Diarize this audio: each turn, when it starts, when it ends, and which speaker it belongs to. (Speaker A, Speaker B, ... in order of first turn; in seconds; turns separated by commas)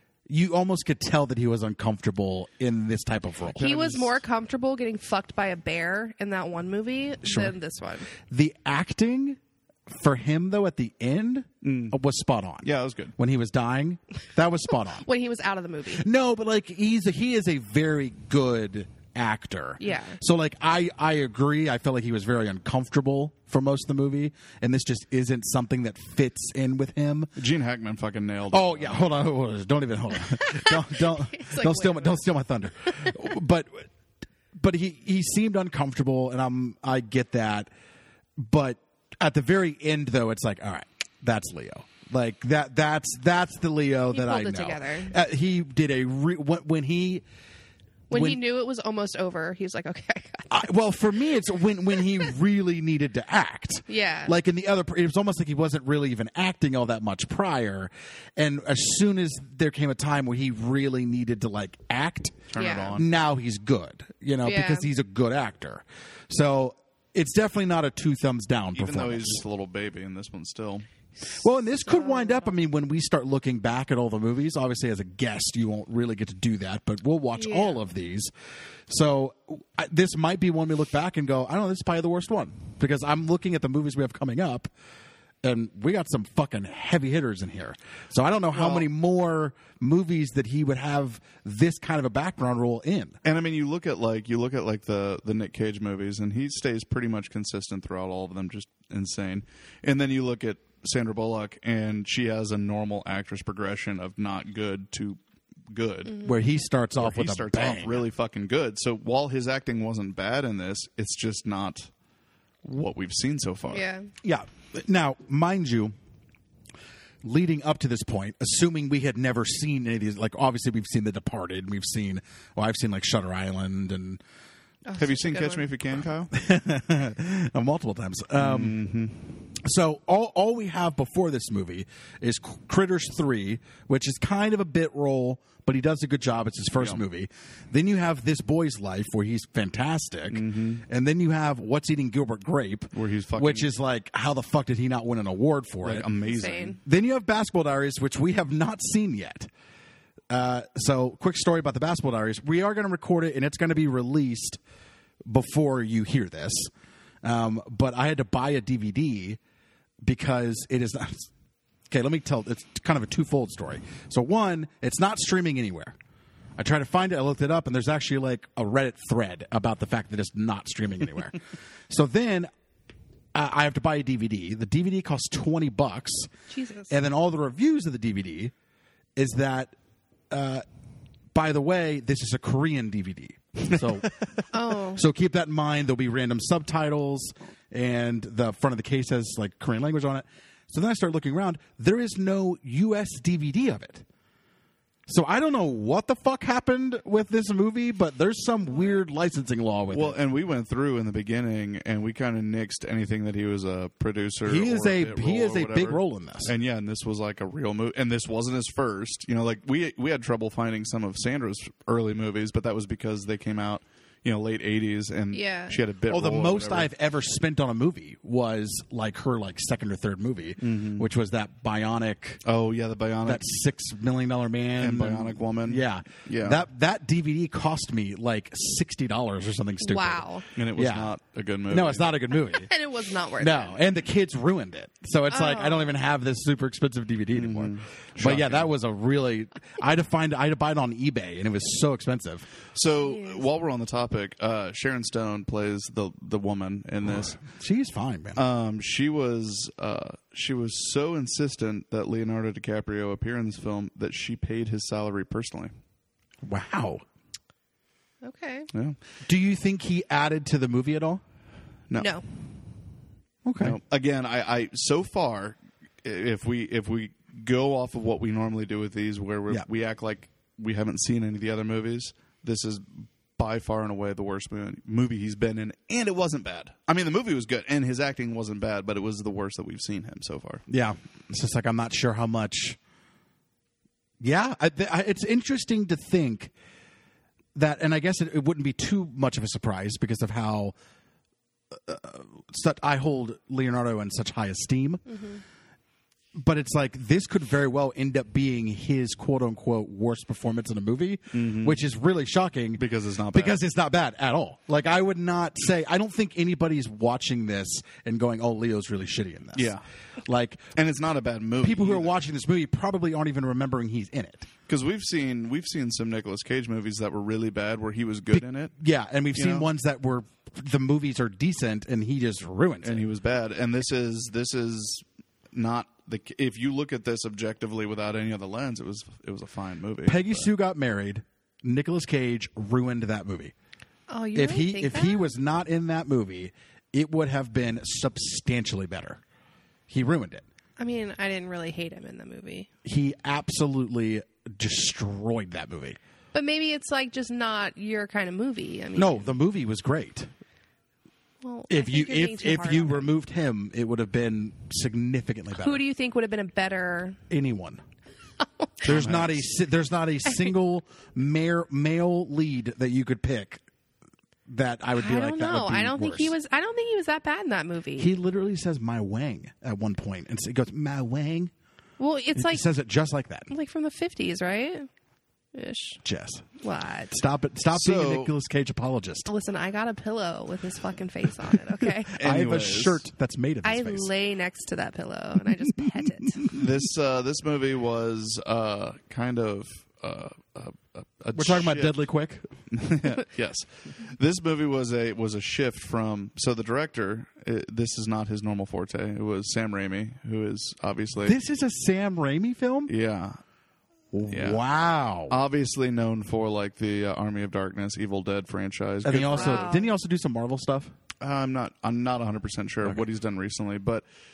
Speaker A: 0.3-3.6, Speaker B: 3.4-4.2, Speaker C: 3.6-8.1, Speaker A: 7.2-7.6, Speaker A: 8.2-15.1, Speaker B: 11.6-12.0, Speaker B: 12.6-13.2, Speaker C: 14.9-16.0, Speaker A: 15.9-27.4, Speaker C: 19.8-20.2, Speaker B: 27.4-29.1, Speaker A: 28.5-33.9, Speaker C: 30.4-32.2, Speaker A: 34.6-37.7, Speaker A: 38.4-47.2, Speaker C: 44.1-45.1, Speaker C: 48.1-50.7, Speaker A: 48.1-48.4, Speaker A: 50.5-69.4, Speaker C: 53.9-54.3, Speaker B: 62.5-63.1, Speaker C: 62.6-63.0, Speaker C: 64.4-64.9, Speaker B: 68.8-70.9, Speaker A: 71.3-78.3, Speaker C: 71.9-72.5, Speaker C: 77.4-77.8, Speaker A: 78.9-84.7, Speaker A: 85.4-93.2, Speaker B: 88.5-88.9, Speaker B: 93.2-106.2, Speaker C: 106.1-106.3, Speaker A: 106.2-108.1, Speaker B: 107.0-111.9, Speaker B: 112.6-113.9, Speaker C: 113.7-114.1, Speaker A: 114.2-115.9, Speaker A: 117.2-124.2, Speaker C: 124.9-125.7, Speaker B: 125.0-126.3, Speaker A: 126.3-128.8, Speaker B: 128.4-129.3, Speaker A: 129.6-146.1, Speaker B: 140.3-140.8, Speaker B: 142.9-143.7, Speaker B: 145.8-146.8, Speaker C: 146.2-146.8, Speaker A: 146.8-149.5, Speaker A: 150.3-154.6, Speaker A: 155.3-156.7, Speaker A: 157.2-159.4, Speaker A: 160.0-161.3, Speaker A: 161.9-166.0, Speaker A: 166.6-172.5, Speaker A: 173.3-176.3, Speaker C: 176.5-176.9, Speaker A: 176.9-178.5, Speaker A: 179.2-179.8, Speaker A: 180.3-180.6, Speaker A: 181.3-184.1, Speaker C: 184.5-185.0, Speaker A: 184.9-194.1, Speaker A: 195.1-200.2, Speaker B: 199.9-216.9, Speaker A: 204.5-206.5, Speaker C: 215.3-215.8, Speaker A: 216.1-222.4, Speaker B: 220.6-221.1, Speaker B: 222.4-223.4, Speaker A: 223.2-231.1, Speaker B: 224.8-226.6, Speaker C: 229.8-230.4, Speaker B: 230.6-232.2, Speaker A: 231.7-232.7, Speaker C: 232.4-233.8, Speaker A: 233.4-242.5, Speaker C: 235.3-235.9, Speaker B: 237.3-238.7, Speaker B: 242.7-247.4, Speaker C: 243.0-243.4, Speaker A: 247.3-248.4, Speaker B: 248.4-255.7, Speaker A: 256.4-257.0, Speaker C: 258.2-258.7, Speaker B: 258.7-259.0, Speaker A: 259.2-261.2, Speaker C: 262.0-262.2, Speaker A: 263.4-263.8, Speaker B: 263.6-280.6, Speaker A: 280.7-282.8, Speaker A: 284.2-286.5, Speaker A: 287.6-290.8, Speaker A: 291.7-295.1, Speaker A: 296.4-310.7, Speaker B: 301.3-301.8, Speaker B: 302.8-303.6, Speaker B: 309.6-309.8, Speaker B: 310.8-312.1, Speaker A: 311.6-314.5, Speaker B: 314.7-318.7, Speaker A: 318.3-323.0, Speaker B: 319.3-319.7, Speaker B: 322.8-330.5, Speaker A: 330.1-333.5, Speaker C: 334.1-335.3, Speaker A: 334.3-339.2, Speaker A: 339.9-340.4, Speaker C: 340.8-342.7, Speaker A: 342.9-346.0, Speaker C: 346.3-349.3, Speaker A: 349.0-350.3, Speaker C: 351.4-353.1, Speaker A: 351.7-355.8, Speaker C: 355.5-357.2, Speaker A: 357.3-357.8, Speaker C: 358.4-358.7, Speaker A: 358.8-363.6, Speaker B: 358.8-359.4, Speaker C: 360.3-360.5, Speaker A: 364.5-366.4, Speaker C: 365.0-368.1, Speaker A: 368.0-371.5, Speaker C: 372.0-372.7, Speaker A: 372.3-373.5, Speaker C: 373.5-374.9, Speaker C: 375.5-376.0, Speaker A: 376.0-376.5, Speaker C: 376.6-377.1, Speaker A: 377.1-379.3, Speaker B: 377.7-378.3, Speaker C: 379.3-382.1, Speaker B: 382.1-383.0, Speaker A: 382.1-384.1, Speaker C: 383.6-386.5, Speaker B: 386.5-391.9, Speaker A: 391.3-392.5, Speaker B: 392.7-401.4, Speaker A: 401.2-402.9, Speaker B: 402.9-403.4, Speaker A: 404.1-405.4, Speaker B: 404.3-404.6, Speaker B: 405.3-409.7, Speaker A: 409.0-410.9, Speaker C: 409.3-409.9, Speaker B: 411.2-414.1